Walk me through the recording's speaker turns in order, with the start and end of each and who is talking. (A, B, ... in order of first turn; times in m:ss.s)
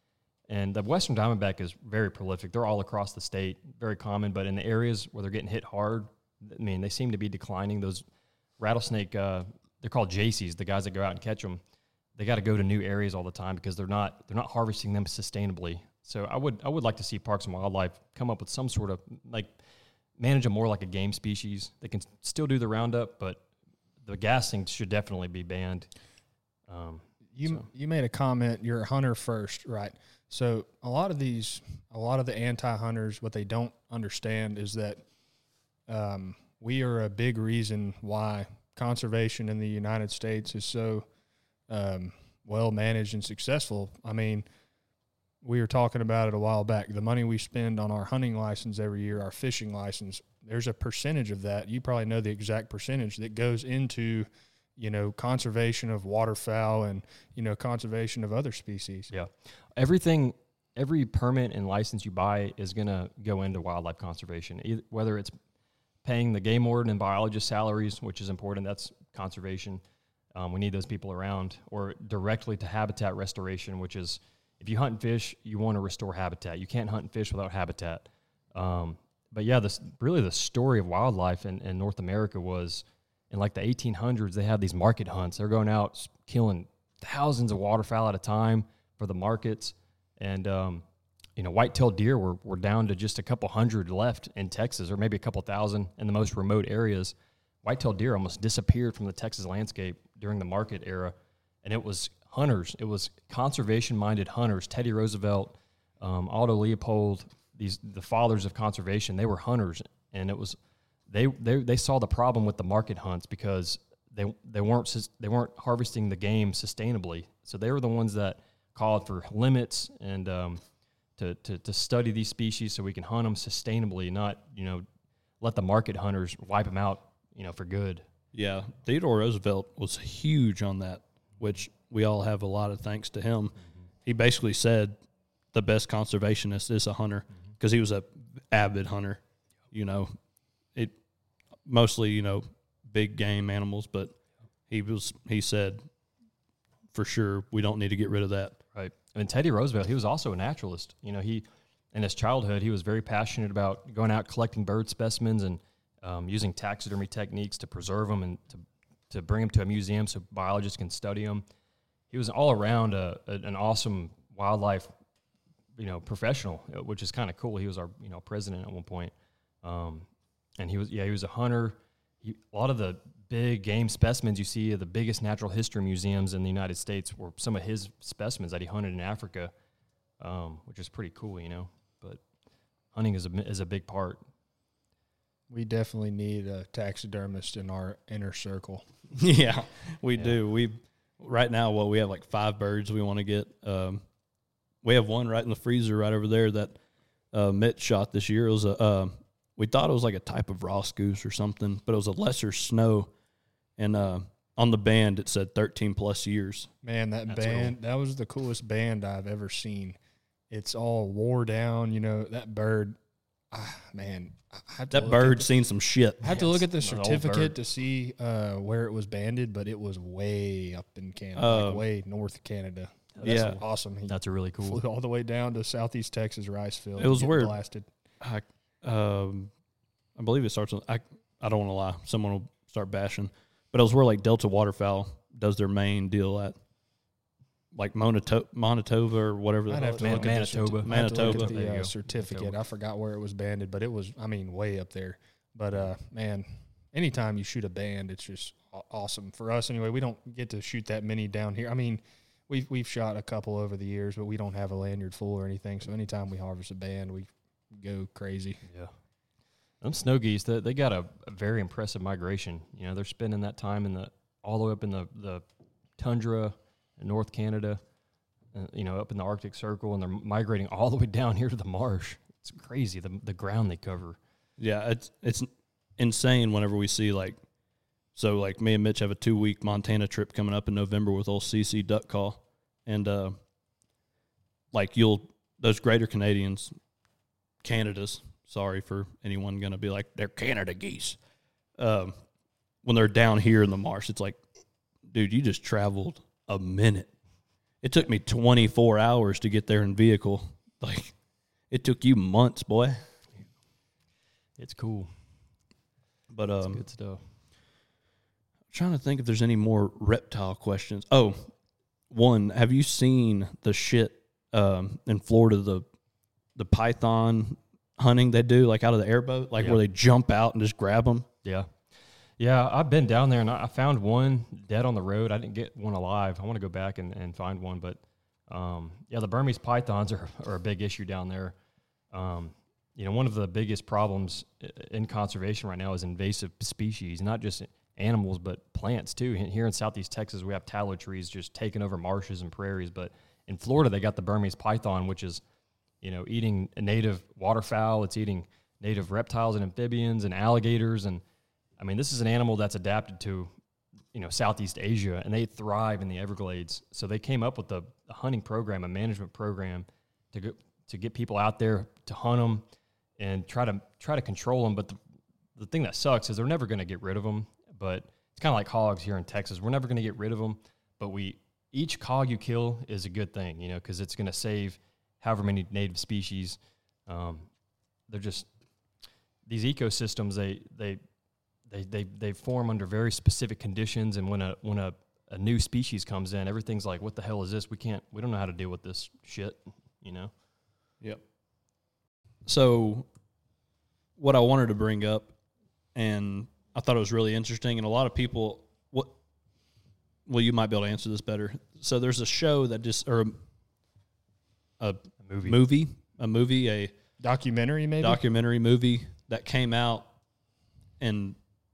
0:00.5-0:08.0 A
0:08.6-0:11.6 A
0:12.2-0:19.6 A
0:20.2-0:23.4 A
0:24.0-0:25.9 A
0:26.7-0:27.7 A
0:27.4-0:35.0 B
0:35.9-0:41.1 B
0:41.7-0:44.4 B
0:45.4-0:59.1 B
0:59.1-1:05.3 A
1:06.0-1:09.8 A
1:10.4-1:30.8 A
1:31.4-1:50.6 A
1:51.1-2:00.6 A
2:01.2-2:04.8 A
2:05.4-2:08.0 A
2:08.3-2:15.0 C
2:15.5-2:19.2 C
2:19.7-2:20.1 C
2:21.7-2:24.1 C
2:24.7-2:25.8 C
2:26.9-2:28.6 C
2:28.7-2:41.4 A
2:42.1-2:44.9 A
2:45.8-2:50.1 A
2:50.6-2:59.5 A
3:00.2-3:02.2 A
3:02.9-3:04.2 A
3:05.5-3:08.8 B
3:09.2-3:14.0 C
3:14.8-3:16.8 C
3:17.3-3:23.1 C
3:23.8-3:26.7 C
3:26.8-3:30.0 B
3:27.3-3:27.7 A
3:30.5-3:33.0 B
3:33.5-3:35.5 B
3:34.9-3:36.2 C
3:36.2-3:44.2 B
3:36.3-3:37.6 A
3:41.4-3:41.8 C
3:43.2-3:44.8 A
3:43.2-3:43.6 C
3:44.7-3:47.9 B
3:47.0-3:47.5 C
3:48.2-3:49.5 C
3:50.2-3:56.6 C
3:57.8-4:01.5 C
3:59.7-4:18.6 B
4:00.0-4:02.6 A
4:19.8-4:25.4 A
4:26.0-4:27.8 A
4:28.5-4:34.2 A
4:34.6-4:37.4 C
4:38.2-4:43.4 C
4:44.7-4:46.8 C
4:47.6-4:51.2 C
4:51.8-4:52.2 C
4:52.8-4:54.4 C
4:55.1-4:57.1 C
4:57.8-5:01.1 C
5:01.7-5:03.0 C
5:04.6-5:05.1 A
5:06.3-5:06.8 C
5:06.6-5:07.2 A
5:08.7-5:11.5 C
5:12.1-5:15.8 C
5:16.6-5:21.3 C
5:21.4-5:21.7 A
5:22.4-5:31.6 A
5:32.1-5:45.4 A
5:46.0-5:51.2 A
5:51.8-5:53.5 A
5:54.1-6:02.6 A
6:03.2-6:05.0 A
6:05.6-6:17.5 A
6:18.1-6:18.5 A
6:19.5-6:21.0 A
6:21.7-6:30.3 A
6:32.5-6:33.1 C
6:34.2-6:35.3 C
6:36.0-6:39.1 C
6:40.3-6:43.4 C
6:44.8-6:46.9 C
6:45.2-6:45.6 A
6:47.2-6:48.2 B
6:48.0-6:50.1 C
6:51.0-6:51.4 C